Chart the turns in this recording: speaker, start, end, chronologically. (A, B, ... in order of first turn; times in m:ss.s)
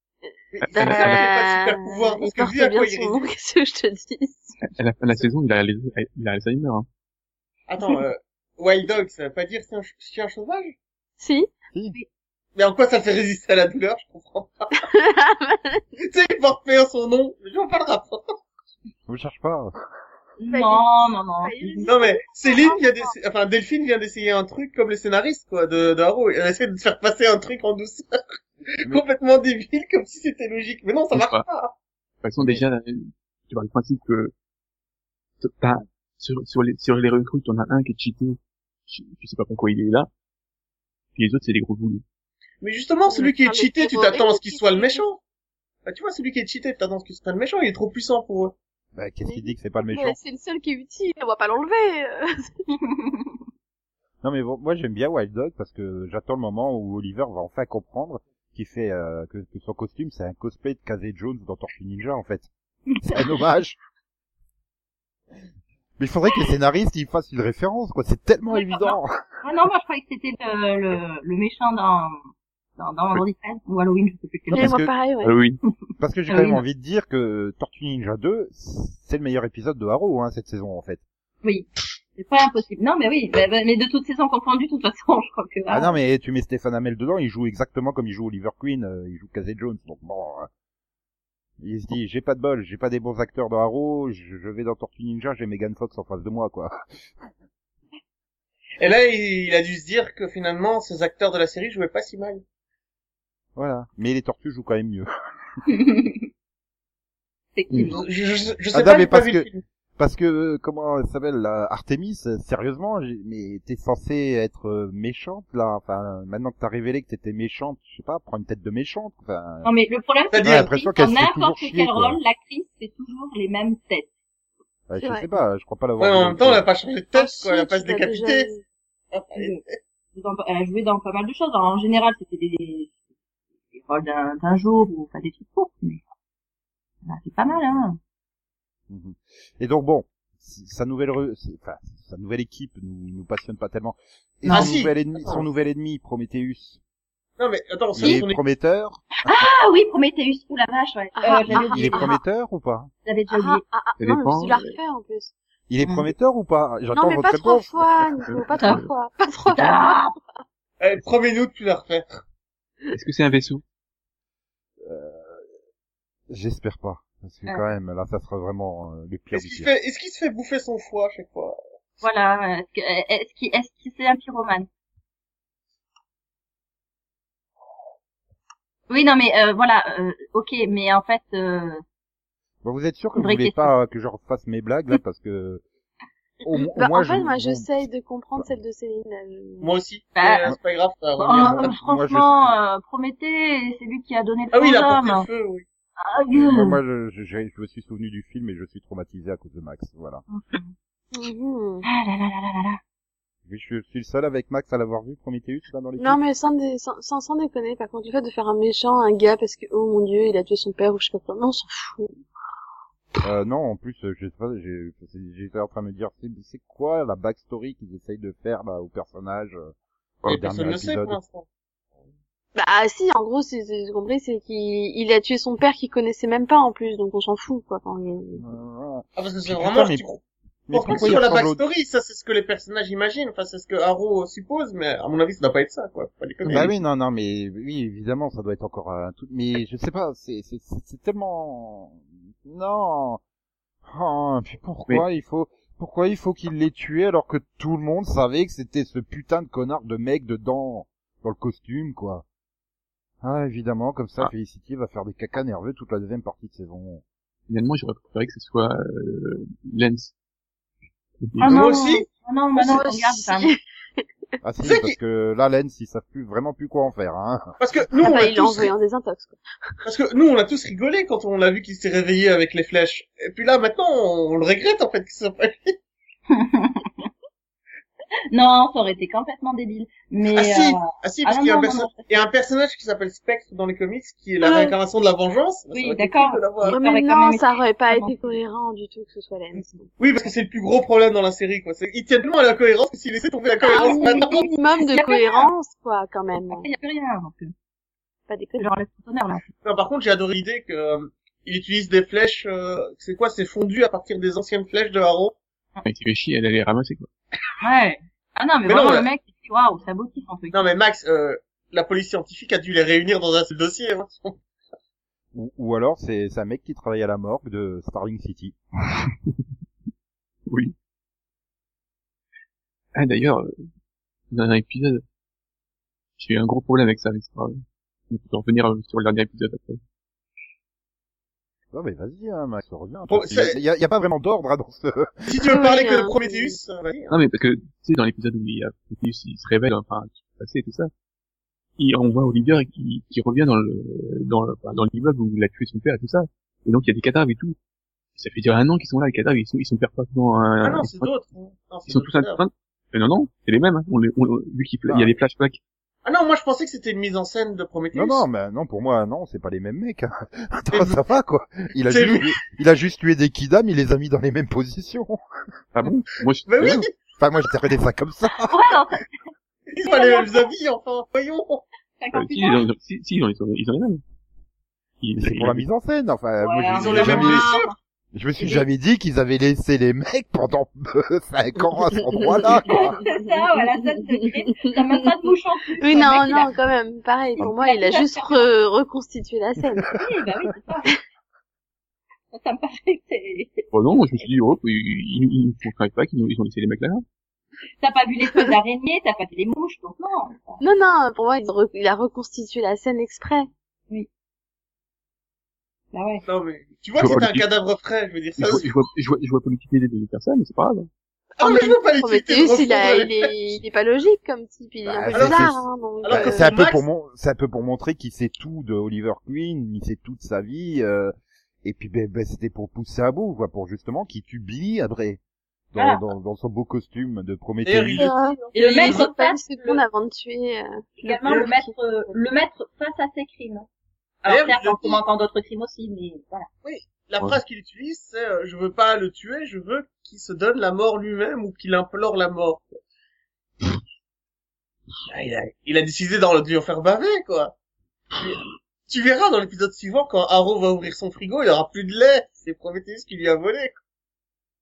0:00.5-0:03.3 A
0:00.7-0:01.3 B
0:00.7-0:04.6 C
0:04.7-0:06.9 B
0:07.7-0:10.7 A
0:11.2-0:11.5 C
0:12.6-0:14.7 A
0:14.8-0:15.8 C
0:16.0-0:18.2 A
0:19.1-0:19.7 D
0:20.4-0:21.5 E
0:20.5-0:23.1 C
0:21.8-0:31.7 A
0:31.1-0:31.4 B
0:32.2-0:34.3 B
0:35.4-0:40.1 B
0:41.2-0:42.0 B
0:42.6-0:45.2 A
0:43.1-0:45.0 C
0:45.8-0:48.5 A
0:48.9-0:50.2 D
0:49.2-0:52.6 C
0:53.0-0:53.3 E
0:54.2-1:02.5 D
1:03.0-1:03.8 D
1:06.0-1:09.2 D
1:09.4-1:12.2 E
1:12.8-1:14.7 E
1:14.5-1:14.9 D
1:14.5-1:15.3 C
1:15.2-1:15.6 B
1:16.0-1:21.0 D
1:16.3-1:16.6 E
1:21.4-1:25.9 E
1:25.7-1:30.5 D
1:31.6-1:36.8 D
1:38.8-1:42.4 A
1:43.6-1:45.1 D
1:45.7-1:46.3 E
1:47.5-1:48.0 E
1:47.9-1:49.6 A
1:48.7-1:49.5 D
1:50.0-1:59.7 D
1:59.6-2:04.1 E
2:00.3-2:00.7 A
2:00.4-2:02.2 D
2:04.9-2:06.6 D
2:05.0-2:05.3 C
2:06.0-2:08.5 A
2:07.1-2:08.6 C
2:09.1-2:09.8 A
2:09.3-2:09.6 E
2:10.1-2:12.9 E
2:13.7-2:16.0 E
2:17.0-2:18.0 E
2:17.4-2:17.8 D
2:18.9-2:26.8 D
2:24.5-2:25.4 A
2:27.4-2:28.4 A
2:27.9-2:29.4 D
2:29.2-2:32.2 E
2:31.2-2:32.1 C
2:31.5-2:32.9 D
2:33.0-2:33.6 E
2:33.3-2:35.3 C
2:34.0-2:34.7 B
2:35.7-2:38.1 D
2:35.8-2:36.1 E
2:36.9-2:40.1 C
2:38.6-2:38.8 E
2:39.5-2:40.1 E
2:40.8-2:42.2 A
2:42.9-2:43.6 B
2:44.8-2:45.4 D
2:46.3-2:49.7 D
2:49.3-2:51.6 A
2:52.0-2:54.7 E
2:58.9-3:01.8 E
3:02.6-3:05.6 D
3:03.2-3:03.7 E
3:06.4-3:08.5 D
3:06.8-3:09.7 C
3:09.6-3:11.7 A
3:10.2-3:10.4 E
3:11.2-3:15.3 E
3:11.4-3:12.5 D
3:14.5-3:15.6 A
3:16.0-3:16.8 E
3:16.3-3:20.2 D
3:20.3-3:20.7 E
3:21.1-3:21.8 C
3:21.8-3:22.8 E
3:23.4-3:26.2 D
3:26.0-3:32.1 C
3:33.2-3:39.7 D
3:40.2-3:41.2 D
3:40.3-3:41.4 A
3:42.5-3:48.4 C
3:48.4-3:50.0 D
3:49.2-3:56.7 A
3:50.7-3:51.6 D
3:56.5-4:03.2 D
4:03.8-4:12.2 D
4:13.2-4:17.0 D
4:17.5-4:20.1 B
4:21.2-4:21.7 B
4:21.4-4:23.5 E
4:21.4-4:22.1 A
4:22.6-4:23.6 C
4:24.4-4:27.5 D
4:24.6-4:24.9 A
4:27.6-4:28.7 A
4:28.0-4:29.4 C
4:29.8-4:35.8 A
4:36.3-4:37.1 E
4:38.3-4:42.1 E
4:40.3-4:46.8 A
4:44.4-4:44.7 C
4:45.7-4:48.2 E
4:46.6-4:49.9 C
4:50.0-4:54.4 A
4:53.6-4:56.6 C
4:53.7-4:55.5 E
4:56.5-4:57.5 E
4:58.3-4:58.7 C
4:58.6-4:59.4 E
4:59.6-5:05.3 A
5:05.8-5:07.1 B
5:07.6-5:10.7 E
5:08.6-5:09.1 A
5:10.5-5:14.4 A
5:15.3-5:18.6 D
5:20.5-5:20.7 B
5:22.9-5:23.5 B
5:24.3-5:25.0 B
5:26.2-5:29.8 B
5:31.7-5:35.4 D
5:33.1-5:33.6 A
5:35.3-5:37.1 A
5:35.5-5:36.6 C
5:37.1-5:40.9 B
5:41.8-5:47.6 B
5:48.2-5:51.1 B
5:50.6-5:52.4 A
5:51.9-5:55.6 B
5:56.0-5:58.2 A
5:57.9-6:05.2 D
6:00.7-6:01.0 A
6:01.9-6:02.4 A
6:05.7-6:06.8 B
6:06.5-6:07.0 A
6:07.2-6:08.6 D
6:08.5-6:09.1 E
6:09.7-6:11.6 A
6:09.8-6:10.5 E
6:12.0-6:12.7 E
6:12.1-6:14.0 B
6:15.0-6:15.6 B
6:15.2-6:17.5 D
6:16.4-6:17.8 E
6:16.7-6:17.7 A
6:18.1-6:23.0 D
6:22.1-6:24.0 C
6:22.6-6:26.5 E
6:25.8-6:30.0 C
6:27.4-6:28.5 E
6:29.9-6:30.9 E
6:32.3-6:33.7 E
6:33.7-6:37.0 B
6:37.8-6:40.6 E
6:40.6-6:43.5 C
6:45.9-6:46.2 E
6:46.2-6:48.7 A
6:47.0-6:47.5 B
6:48.4-6:50.9 B
6:51.4-6:53.3 A
6:51.4-6:56.5 C
6:54.8-7:01.1 D
6:55.1-6:55.5 A
6:56.0-6:56.8 A
7:01.6-7:05.2 D
7:05.7-7:08.1 D
7:05.8-7:06.0 E
7:07.6-7:09.1 A
7:08.0-7:11.7 C
7:08.5-7:09.8 E
7:11.0-7:13.7 E
7:14.2-7:16.5 E
7:14.2-7:15.0 A
7:16.6-7:22.8 A
7:25.1-7:27.5 A
7:28.1-7:33.8 A